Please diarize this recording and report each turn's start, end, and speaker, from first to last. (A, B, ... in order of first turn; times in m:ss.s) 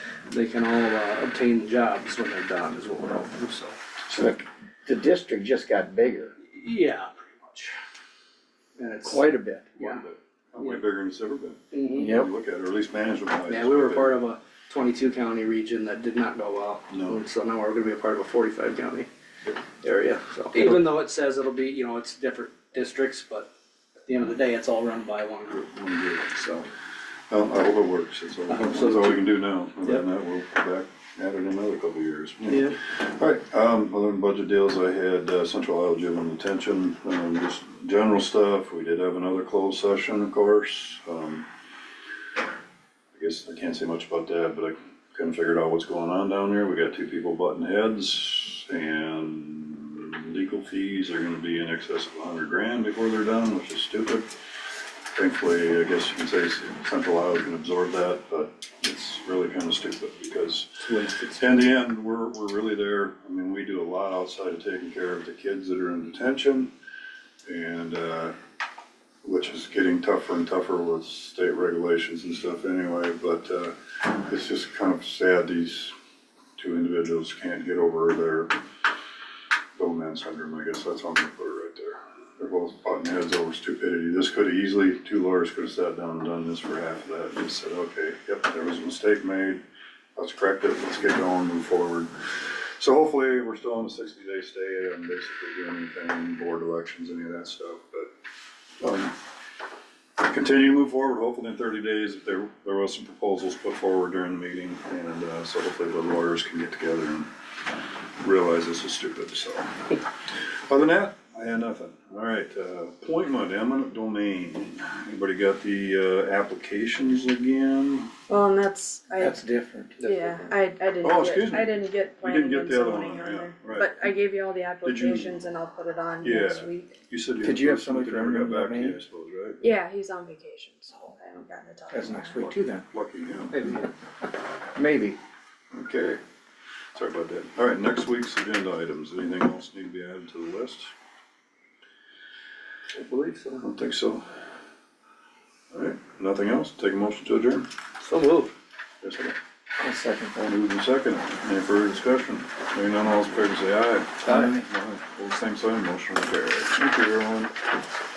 0:00.3-0:03.8 A
0:04.1-0:06.3 B
0:06.5-0:07.7 A
0:08.8-0:09.3 A
0:09.0-0:09.7 B
0:09.8-0:14.2 C
0:11.7-0:12.2 A
0:12.0-0:12.3 B
0:13.5-0:19.1 A
0:16.9-0:17.2 C
0:19.8-0:23.5 A
0:24.1-0:26.7 A
0:25.5-0:26.2 C
0:27.3-0:41.4 C
0:28.5-0:30.0 A
0:32.5-0:32.7 A
0:43.1-0:54.3 C
0:55.1-1:00.7 C
1:00.9-1:01.5 B
1:01.4-1:06.7 C
1:07.4-1:08.3 C
1:09.2-1:16.0 C
1:16.6-1:18.6 C
1:19.8-1:29.6 C
1:30.2-1:38.1 C
1:38.8-1:39.2 C
1:40.2-1:47.3 C
1:48.2-1:50.0 C
1:50.7-1:58.1 C
1:58.3-1:59.4 D
1:59.2-2:00.0 B
2:00.0-2:07.0 D
2:01.0-2:04.1 C
2:04.8-2:05.4 C
2:06.2-2:09.6 C
2:07.4-2:09.0 B
2:09.6-2:12.6 D
2:11.9-2:12.8 B
2:12.9-2:13.6 C
2:13.5-2:13.9 B
2:14.8-2:15.2 B
2:15.7-2:16.2 C
2:17.0-2:20.9 C
2:23.0-2:23.5 A
2:23.4-2:24.3 C
2:25.7-2:27.7 C
2:28.0-2:28.5 A
2:29.0-2:29.4 C
2:29.8-2:30.6 B
2:30.4-2:37.5 C
2:34.3-2:34.6 B